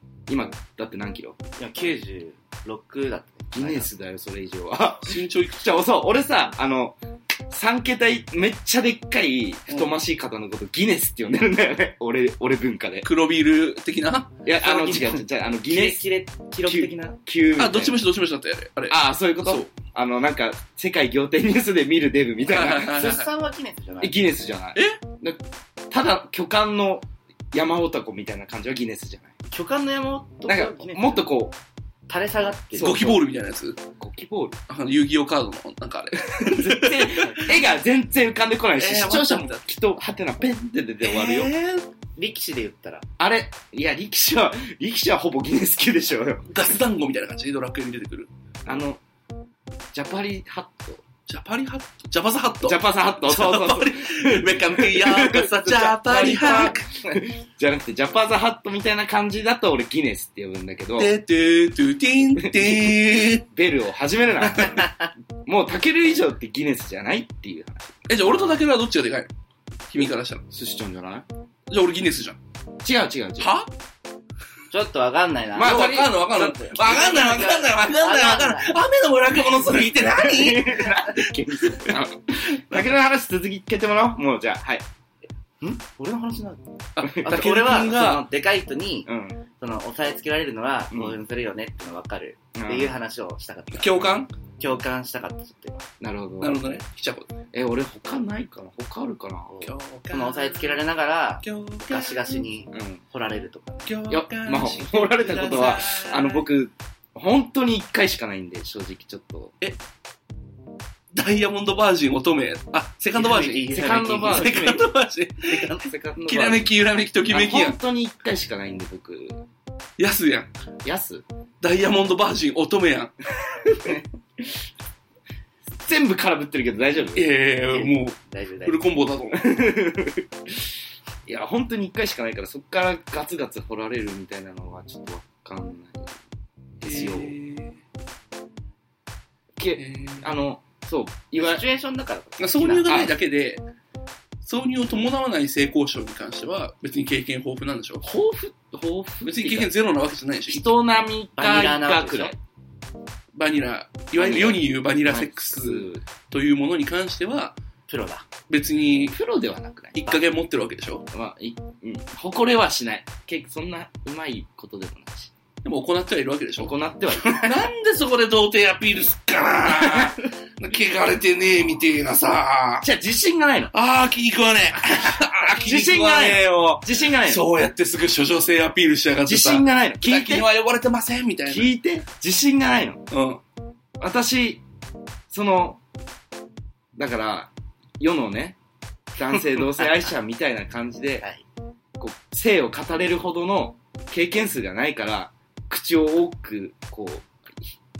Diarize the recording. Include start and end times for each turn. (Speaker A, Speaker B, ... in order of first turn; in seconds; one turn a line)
Speaker A: 0.3-1.4
Speaker B: 1.6-3.9
Speaker A: 3.5-13.1
Speaker C: 5.0-5.7
Speaker C: 13.0-14.3
Speaker A: 14.4-16.0
Speaker B: 14.6-17.2
Speaker A: 16.6-18.0
Speaker C: 17.6-19.7
Speaker A: 18.9-22.9
Speaker C: 22.5-23.3
Speaker B: 22.8-24.1
Speaker A: 24.0-29.3
Speaker B: 29.5-31.3
Speaker A: 30.5-31.6
Speaker B: 32.1-33.2
Speaker C: 32.8-33.8
Speaker A: 34.0-34.6
Speaker C: 34.7-37.6
Speaker A: 36.2-41.5
Speaker C: 38.8-39.7
Speaker C: 41.0-41.9
Speaker B: 42.1-43.1
Speaker A: 43.2-46.5
Speaker C: 46.5-48.3
Speaker A: 48.6-49.0
Speaker A: 49.9-51.0
Speaker C: 51.3-56.8
Speaker A: 52.6-61.1
Speaker C: 61.0-63.4
Speaker A: 62.4-64.9
Speaker A: 65.4-68.6
Speaker C: 68.1-69.3
Speaker C: 69.9-70.4
Speaker A: 70.5-71.2
Speaker C: 71.7-72.4
Speaker A: 72.8-73.5
Speaker C: 73.4-73.7
Speaker B: 74.7-75.9
Speaker A: 75.5-77.3
Speaker C: 75.6-81.0
Speaker B: 76.6-78.8
Speaker A: 79.8-84.8
Speaker B: 85.6-86.6
Speaker C: 87.0-88.2
Speaker B: 87.1-89.1
Speaker A: 89.0-89.4
Speaker B: 89.6-95.9
Speaker A: 90.9-91.2
Speaker A: 92.5-93.0
Speaker C: 93.7-94.3
Speaker A: 96.0-96.6
Speaker C: 96.4-97.3
Speaker A: 97.5-99.6
Speaker B: 99.5-104.0
Speaker C: 99.6-100.8
Speaker C: 101.4-102.5
Speaker A: 102.7-103.0
Speaker C: 103.9-106.5
Speaker A: 104.1-109.5
Speaker C: 111.1-117.8
Speaker B: 113.1-114.8
Speaker A: 113.7-114.8
Speaker B: 115.5-116.6
Speaker A: 115.9-116.6
Speaker A: 117.3-119.4
Speaker C: 120.0-120.5
Speaker A: 120.8-121.2
Speaker C: 121.6-123.1
Speaker A: 125.8-127.3
Speaker C: 127.1-129.5
Speaker B: 127.7-128.8
Speaker A: 129.3-130.6
Speaker A: 131.2-136.1
Speaker A: 136.8-137.3
Speaker C: 136.8-137.8
Speaker A: 139.6-141.6
Speaker C: 139.8-140.3
Speaker B: 141.4-143.0
Speaker C: 142.4-143.6
Speaker A: 142.9-143.1
Speaker C: 144.4-148.0
Speaker A: 148.0-149.7
Speaker C: 149.2-150.7
Speaker A: 150.5-152.4
Speaker B: 151.4-152.4
Speaker C: 153.3-157.5
Speaker A: 154.2-156.0
Speaker B: 157.9-158.2
Speaker C: 158.5-159.1
Speaker A: 159.1-160.0
Speaker C: 159.9-161.0
Speaker A: 161.1-165.3
Speaker C: 165.6-172.9
Speaker A: 166.6-167.5
Speaker A: 169.7-170.1
Speaker A: 172.8-173.7
Speaker C: 173.7-181.7
Speaker A: 175.2-177.4
Speaker A: 179.2-180.5
Speaker A: 181.4-183.0
Speaker C: 183.1-183.4
Speaker A: 184.0-184.6
Speaker A: 185.3-185.8
Speaker A: 186.9-188.6
Speaker A: 189.1-191.2
Speaker A: 192.0-197.8